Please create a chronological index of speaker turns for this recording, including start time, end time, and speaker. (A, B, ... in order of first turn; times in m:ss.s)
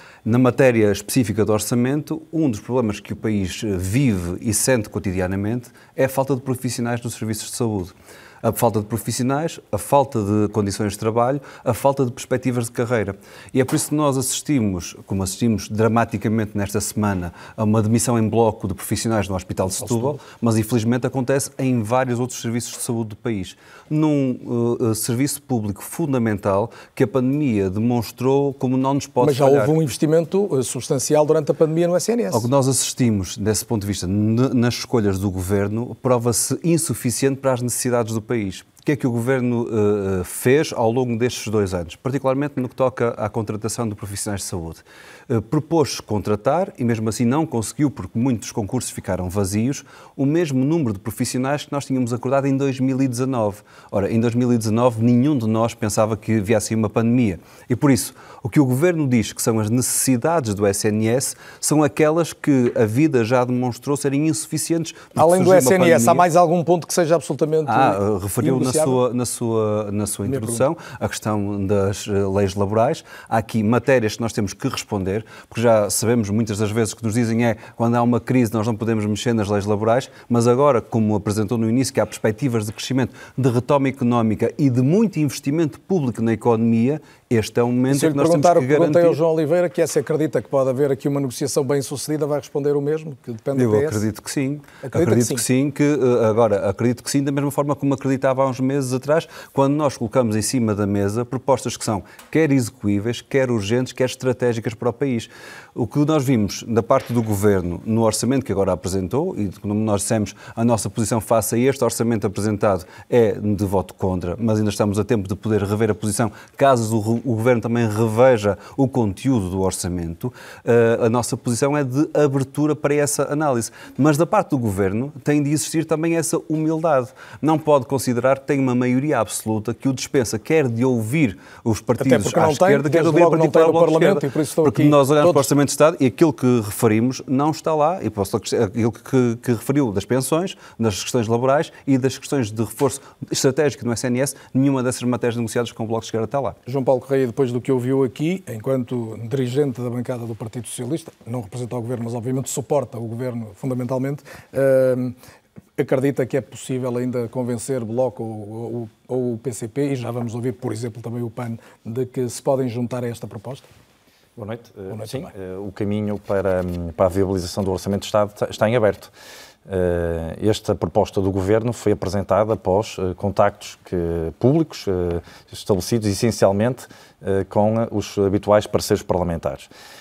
0:00.2-0:29.7 A
0:19.8-0:20.2 B
0:29.2-0:32.4 B
0:32.3-1:06.2 A
1:05.2-1:09.0 B
1:07.6-1:29.2 A
1:10.2-1:10.6 B
1:27.9-1:34.0 B
1:33.5-2:26.6 A
1:34.8-1:35.4 B
2:12.0-2:15.5 B
2:26.6-2:35.1 B
2:35.8-2:43.6 B
2:44.4-2:49.1 C
2:44.9-2:45.3 B
2:49.7-2:59.7 C